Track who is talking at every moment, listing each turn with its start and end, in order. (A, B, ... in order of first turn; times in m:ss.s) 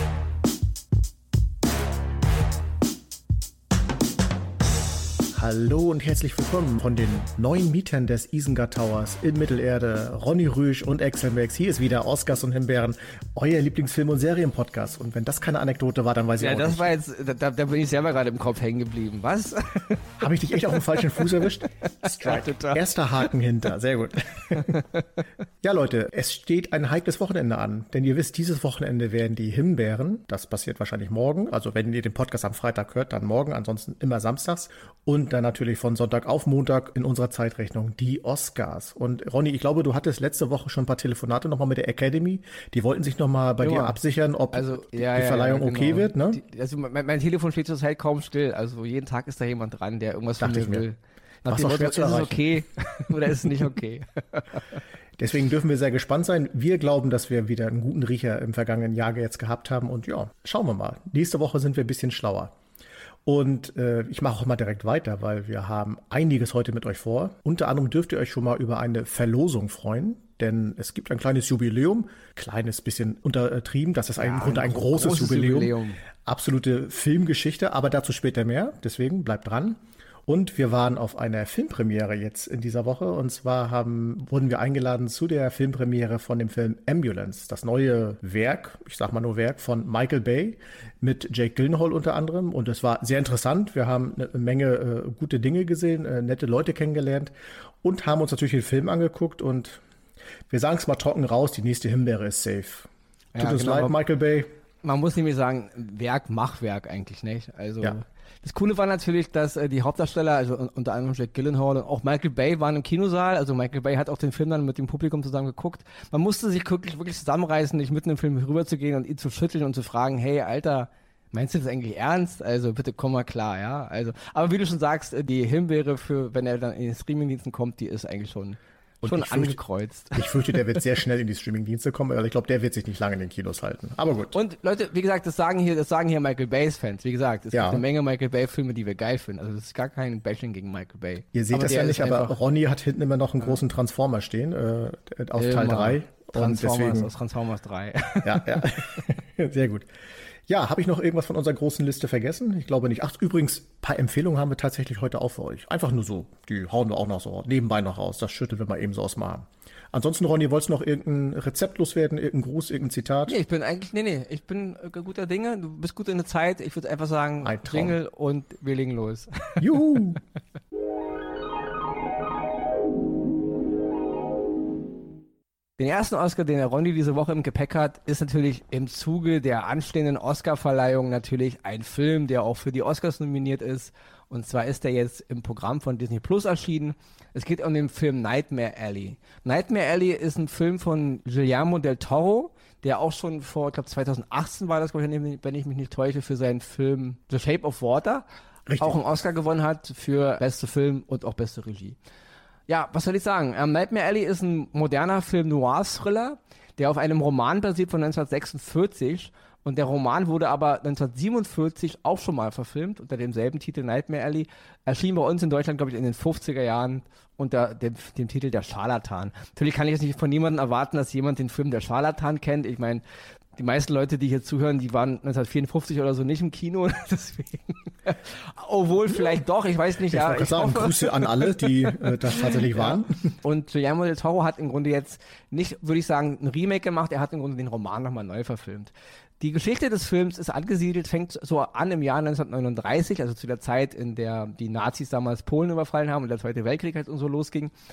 0:05.3-0:16.9 A
0:16.4-0:20.1 B
0:20.2-0:24.8 A
0:22.0-0:22.9 B
0:25.6-0:46.4 A
0:43.6-0:44.0 B
0:44.5-0:54.6 B
0:50.4-0:50.8 A
0:51.5-0:52.4 A
0:55.2-1:02.5 A
1:03.3-1:15.7 A
1:14.2-1:16.0 B
1:16.2-1:39.8 A
1:40.5-1:44.5 A
1:43.3-1:44.0 B
1:44.8-2:10.6 B
2:09.0-2:09.6 A
2:10.2-2:14.4 A
2:14.3-2:22.4 B
2:17.5-2:17.8 A
2:21.3-2:27.1 A
2:25.4-2:29.0 B
2:28.2-2:29.9 A
2:30.5-2:43.4 A
2:43.3-2:49.6 B
2:47.4-2:48.0 A
2:49.6-2:50.2 A
2:55.8-3:18.2 B
3:18.7-3:19.0 A
3:18.8-3:22.0 B
3:22.7-3:43.0 B
3:43.6-4:07.7 B
3:50.1-3:53.3 A